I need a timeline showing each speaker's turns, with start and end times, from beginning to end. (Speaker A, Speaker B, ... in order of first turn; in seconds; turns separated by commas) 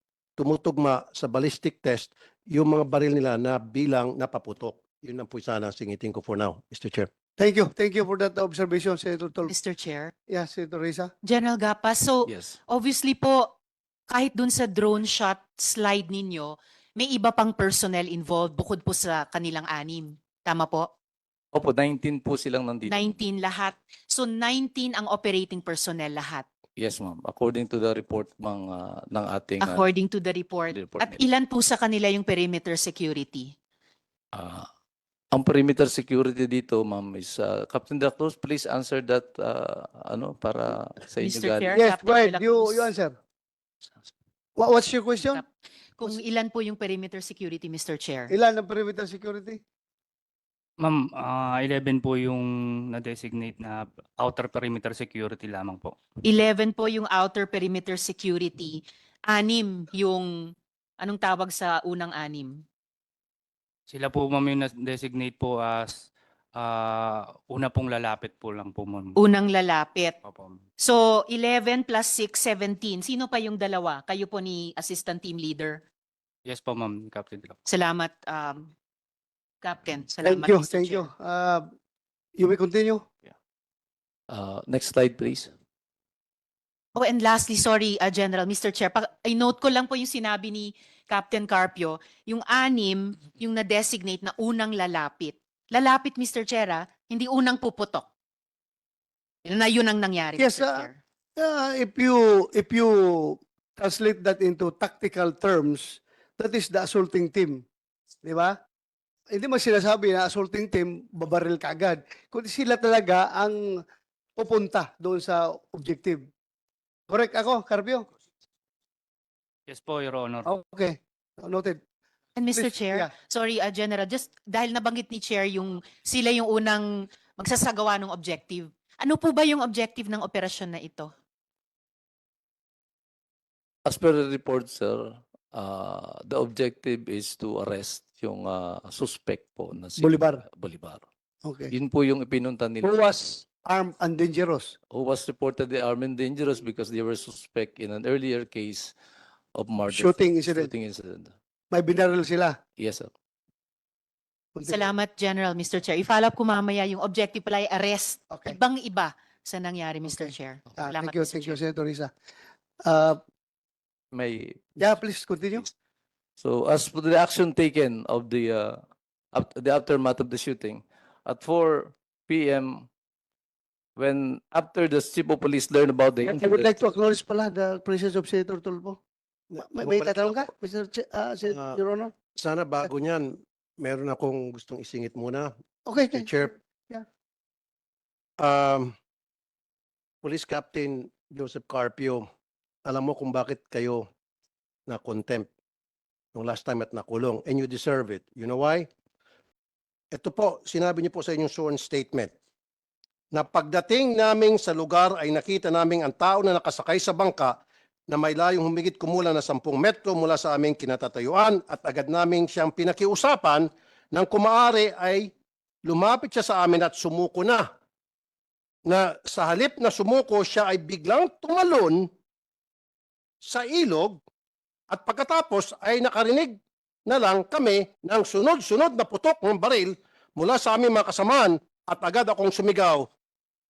Speaker A: 0.4-7.1, Speaker B: 7.4-9.5, Speaker C: 9.5-10.1, Speaker B: 10.3-11.1, Speaker C: 11.2-13.5, Speaker D: 12.3-12.6, Speaker C: 14.1-20.9, Speaker D: 21.5-23.0, Speaker C: 22.9-26.5, Speaker D: 26.8-29.8, Speaker C: 29.6-33.5, Speaker D: 30.7-31.2, Speaker D: 34.3-34.7, Speaker D: 35.3-41.7, Speaker C: 41.2-42.9, Speaker B: 41.8-43.1, Speaker B: 44.6-45.4, Speaker C: 46.0-48.3, Speaker B: 48.3-49.6, Speaker E: 50.8-56.0, Speaker C: 56.2-62.6, Speaker E: 63.9-69.2, Speaker C: 69.2-70.2, Speaker E: 70.2-70.6, Speaker C: 70.8-75.8, Speaker E: 76.5-77.6, Speaker C: 77.7-78.7, Speaker C: 79.6-81.1, Speaker B: 80.2-81.7, Speaker B: 82.4-83.1, Speaker D: 84.3-85.5, Speaker C: 87.0-98.1, Speaker C: 99.5-101.0, Speaker B: 100.4-107.6, Speaker B: 108.2-108.6, Speaker B: 109.3-113.8, Speaker B: 114.4-116.3, Speaker B: 117.1-118.1, Speaker E: 119.7-120.5, Speaker B: 120.5-121.8, Speaker C: 122.4-126.9, Speaker B: 122.5-123.1, Speaker C: 127.4-131.1, Speaker D: 133.9-141.0, Speaker B: 140.0-140.4, Speaker B: 141.4-141.7, Speaker D: 141.7-142.9, Speaker B: 142.8-144.8, Speaker D: 144.9-148.9, Speaker D: 149.6-151.3, Speaker B: 149.9-150.7, Speaker B: 151.7-152.6, Speaker D: 152.8-153.1, Speaker B: 154.6-154.8, Speaker C: 154.7-161.6, Speaker B: 158.3-158.6, Speaker B: 160.1-162.1, Speaker B: 162.8-163.2, Speaker D: 164.1-165.0, Speaker B: 164.8-165.7, Speaker D: 166.4-168.8, Speaker D: 169.3-172.9, Speaker D: 174.0-176.7, Speaker B: 176.3-179.0, Speaker B: 179.6-182.1, Speaker A: 179.6-180.4, Speaker A: 181.5-181.8, Speaker A: 182.4-185.5, Speaker B: 185.9-187.1, Speaker A: 186.0-186.5, Speaker A: 188.4-188.9, Speaker A: 190.2-192.3, Speaker A: 192.9-194.1, Speaker A: 194.9-195.5, Speaker A: 196.3-198.9, Speaker A: 200.1-202.3, Speaker A: 203.3-215.3, Speaker A: 215.8-217.7, Speaker A: 218.9-222.1, Speaker A: 223.4-224.2, Speaker A: 224.9-226.6, Speaker A: 227.1-233.1